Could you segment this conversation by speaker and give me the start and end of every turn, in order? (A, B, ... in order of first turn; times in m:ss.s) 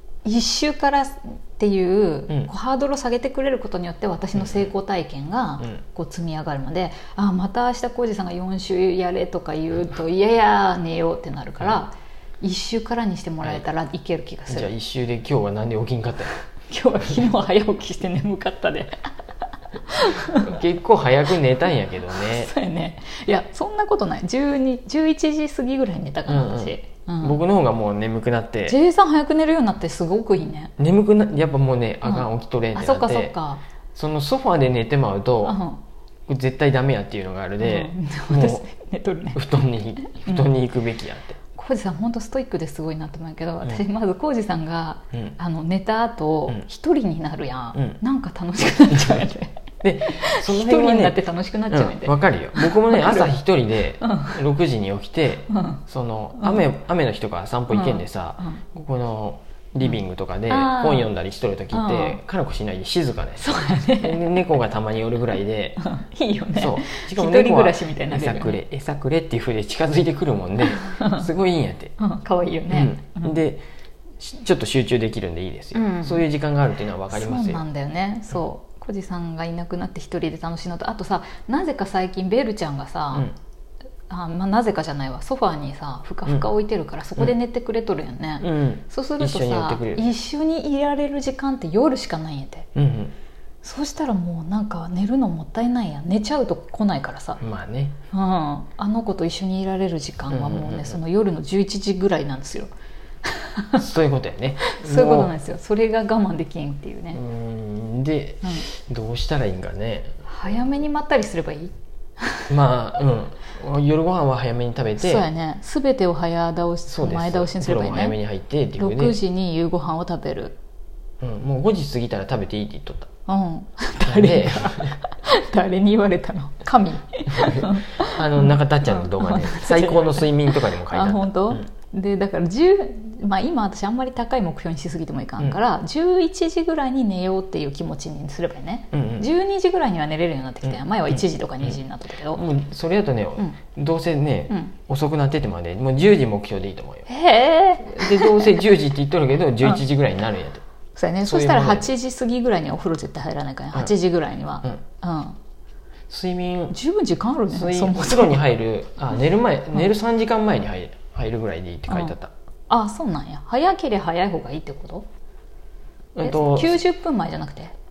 0:00.2-0:14.7 A
0:04.3-0:04.7 B
0:14.5-0:16.4 B
0:16.7-0:19.0 A
0:19.8-0:20.6 A
0:20.3-0:22.5 B
0:22.1-0:27.4 A
0:26.2-0:28.8 B
0:28.7-0:30.7 A
0:30.8-0:33.3 B
0:32.0-0:33.6 A
0:33.9-0:35.6 B
0:35.4-0:35.8 A
0:36.3-0:38.6 B
0:37.6-0:40.5 A
0:39.3-0:41.4 B
0:41.5-0:49.5 A
0:48.9-0:49.2 B
0:49.8-1:05.8 B
0:50.0-0:53.4 A
0:54.0-0:54.4 A
0:55.5-0:55.8 A
0:56.4-0:56.6 A
0:57.7-0:58.6 A
1:00.5-1:01.1 A
1:01.7-1:02.2 A
1:03.4-1:04.2 A
1:05.8-1:08.6 A
1:06.5-1:11.9 B
1:10.8-1:11.2 A
1:12.0-1:13.4 A
1:12.7-1:13.6 B
1:14.2-1:17.6 B
1:15.7-1:16.2 A
1:17.1-1:23.3 A
1:24.1-1:32.7 A
1:28.4-1:30.1 B
1:32.7-1:33.1 B
1:33.6-1:37.4 A
1:37.4-1:38.0 B
1:38.1-1:42.7 A
1:40.3-1:41.0 B
1:43.2-1:43.8 A
1:43.8-1:45.3 B
1:44.6-1:47.2 A
1:47.1-1:50.2 B
1:50.3-1:52.5 A
1:52.5-1:55.2 B
1:55.0-1:58.2 A
1:56.9-1:59.2 B
1:58.8-2:00.6 A
2:01.2-2:03.1 B
2:03.3-2:22.4 A
2:04.0-2:05.0 B
2:07.3-2:11.7 B
2:18.9-2:19.3 B
2:20.6-2:21.8 B
2:22.3-2:27.1 B
2:27.1-2:28.6 A
2:27.8-2:30.6 B
2:31.0-2:35.4 A
2:31.2-2:31.9 B
2:36.1-2:36.8 B
2:36.7-2:38.4 A
2:37.5-2:42.3 B
2:41.9-2:42.1 A
2:42.7-2:45.0 A
2:46.1-2:46.8 B
2:46.2-2:47.7 A